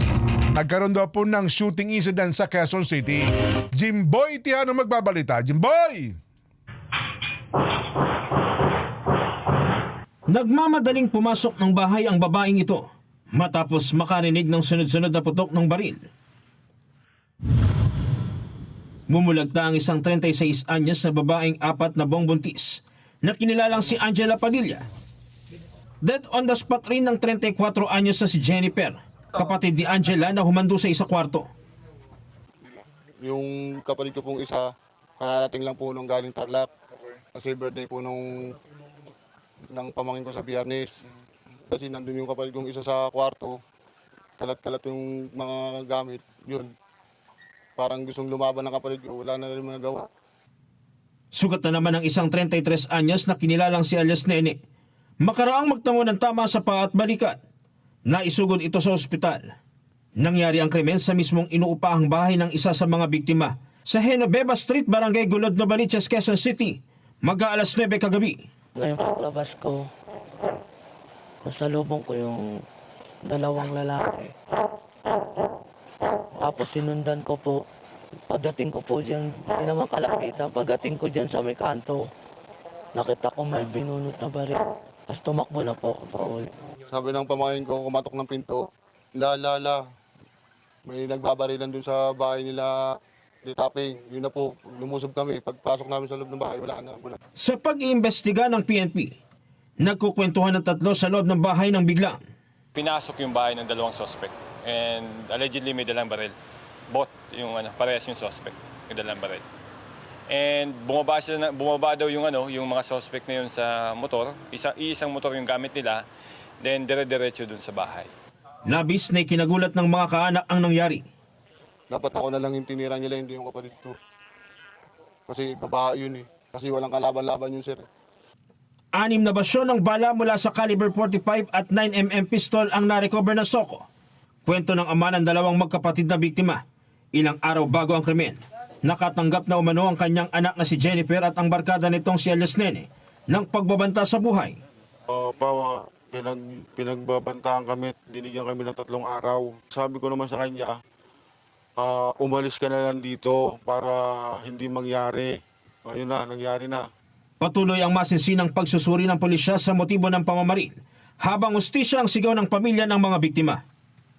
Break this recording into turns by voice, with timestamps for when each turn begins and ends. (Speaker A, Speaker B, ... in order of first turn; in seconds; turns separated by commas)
Speaker A: 0.5-6.2, Speaker B: 10.3-16.1, Speaker B: 19.1-24.9, Speaker B: 26.0-31.5, Speaker C: 33.2-36.7, Speaker C: 37.4-38.5, Speaker C: 39.7-40.9, Speaker C: 41.7-43.6, Speaker C: 44.4-46.7, Speaker C: 47.8-50.1, Speaker B: 51.3-54.6, Speaker B: 55.2-57.4, Speaker B: 58.1-59.5, Speaker B: 60.2-68.4, Speaker D: 68.8-69.9, Speaker D: 71.4-72.4, Speaker D: 73.2-74.3, Speaker D: 76.4-77.6, Speaker D: 78.3-82.1, Speaker D: 83.0-86.5, Speaker C: 86.9-88.7, Speaker C: 89.2-89.8, Speaker C: 90.9-92.8, Speaker C: 93.4-97.2, Speaker B: 97.4-99.2, Speaker B: 99.8-102.2, Speaker E: 102.8-106.3, Speaker E: 106.9-109.4, Speaker E: 110.3-116.0, Speaker E: 116.6-118.1, Speaker B: 118.7-121.0, Speaker C: 121.9-124.0, Speaker C: 125.3-127.9, Speaker B: 128.9-133.8, Speaker B: 134.4-136.6, Speaker B: 137.2-144.6, Speaker F: 145.1-150.8, Speaker F: 151.8-156.9, Speaker B: 157.4-163.6